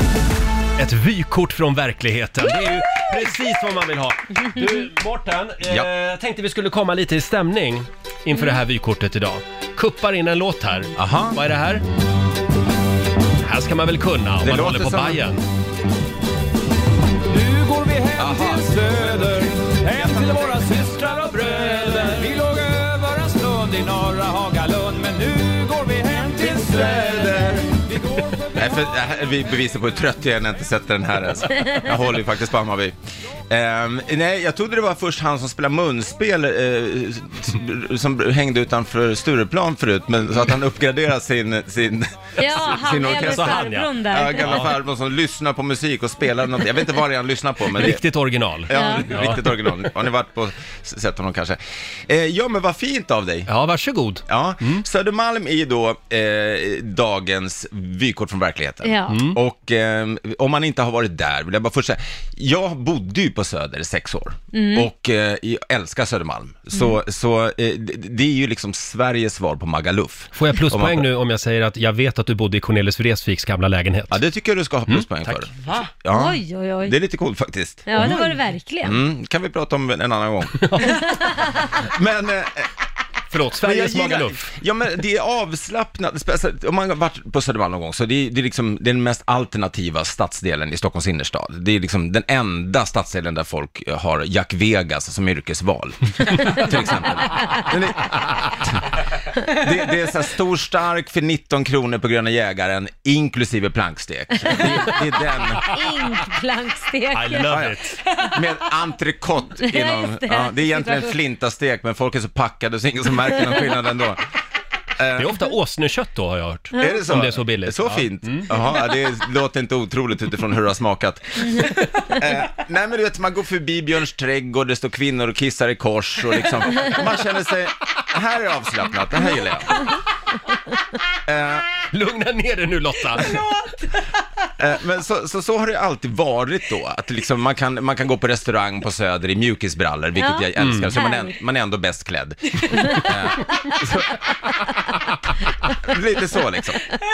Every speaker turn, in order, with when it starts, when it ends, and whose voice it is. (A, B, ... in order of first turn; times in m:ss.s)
0:00.8-0:11.8 A
0:05.6-0:05.9 B
0:11.0-0:11.4 B
0:13.4-0:15.4 A
0:14.4-0:15.3 B
0:17.3-0:28.4 C
0:18.2-0:19.1 B
0:26.3-0:27.5 D
0:26.9-0:27.2 B
0:28.5-0:32.9 B
0:33.5-0:48.0 B
0:42.4-0:44.7 D
0:43.1-0:44.7 A
0:47.7-0:49.5 A
0:48.6-0:53.5 B
0:48.7-0:49.3 D
0:53.5-0:54.8 A
0:54.3-1:11.1 B
0:58.8-0:59.2 D
0:59.1-0:59.4 A
1:04.5-1:04.9 D
1:10.3-1:14.2 A
1:14.1-1:18.3 B
1:14.9-1:15.9 A
1:16.1-1:17.0 D
1:17.9-1:19.0 D
1:18.0-1:18.4 A
1:18.8-1:20.9 B
1:20.6-1:21.2 A
1:21.8-1:22.7 B
1:23.3-1:24.5 A
1:23.6-1:38.7 B
1:39.4-1:45.6 B
1:44.5-1:44.8 D
1:45.7-1:48.4 D
1:47.1-1:48.0 A
1:47.5-1:47.8 B
1:48.3-1:54.2 B
1:49.6-1:51.2 D
1:55.0-1:55.4 B
1:55.2-1:58.5 A
1:56.8-2:09.8 B
2:11.2-2:11.7 B
2:11.9-2:13.4 A
2:14.6-2:24.2 B
2:20.2-2:20.4 D
2:20.6-2:20.9 A
2:21.0-2:21.3 D
2:25.6-2:26.9 B